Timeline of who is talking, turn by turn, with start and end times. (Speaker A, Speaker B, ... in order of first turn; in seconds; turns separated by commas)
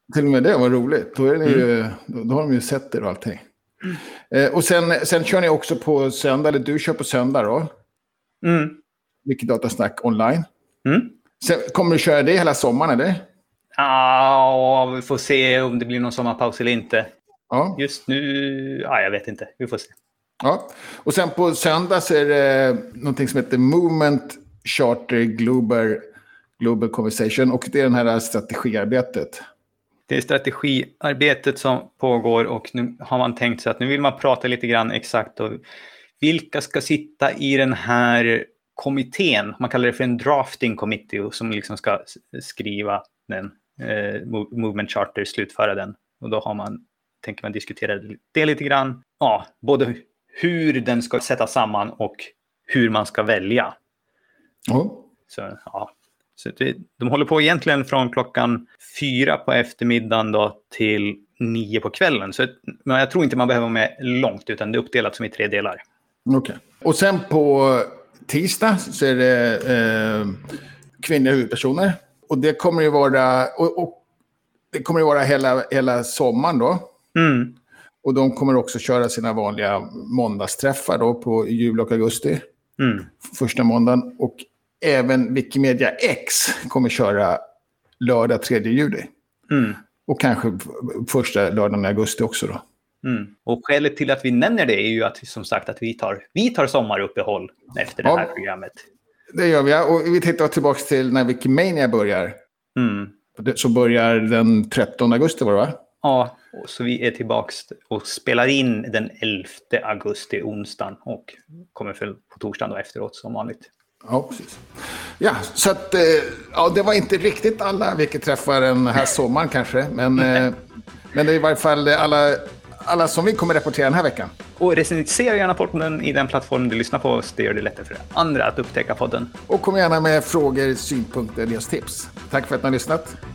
Speaker A: 0.1-3.4, Speaker A: 4.3-7.7, Speaker B: 8.4-8.8, Speaker A: 9.2-10.4, Speaker B: 10.8-11.1, Speaker A: 11.4-13.2, Speaker B: 13.8-17.1, Speaker A: 17.5-17.8, Speaker B: 17.8-19.9, Speaker A: 20.4-26.0, Speaker A: 26.6-29.4, Speaker B: 30.1-35.6, Speaker B: 36.2-53.8, Speaker A: 54.7-55.0, Speaker B: 55.3-65.8, Speaker A: 66.2-70.5, Speaker A: 71.0-74.0, Speaker A: 74.7-76.8, Speaker B: 77.1-77.5, Speaker A: 78.0-82.4, Speaker B: 82.8-83.1, Speaker A: 83.2-87.4, Speaker A: 88.0-89.1, Speaker B: 89.5-89.8, Speaker A: 90.1-92.6, Speaker B: 93.0-98.8, Speaker A: 98.0-98.3, Speaker A: 99.3-102.4, Speaker B: 102.8-103.1, Speaker A: 103.4-105.8, Speaker B: 106.0-113.7, Speaker A: 114.0-120.6, Speaker A: 121.1-124.3, Speaker B: 124.6-129.3, Speaker A: 129.5-133.2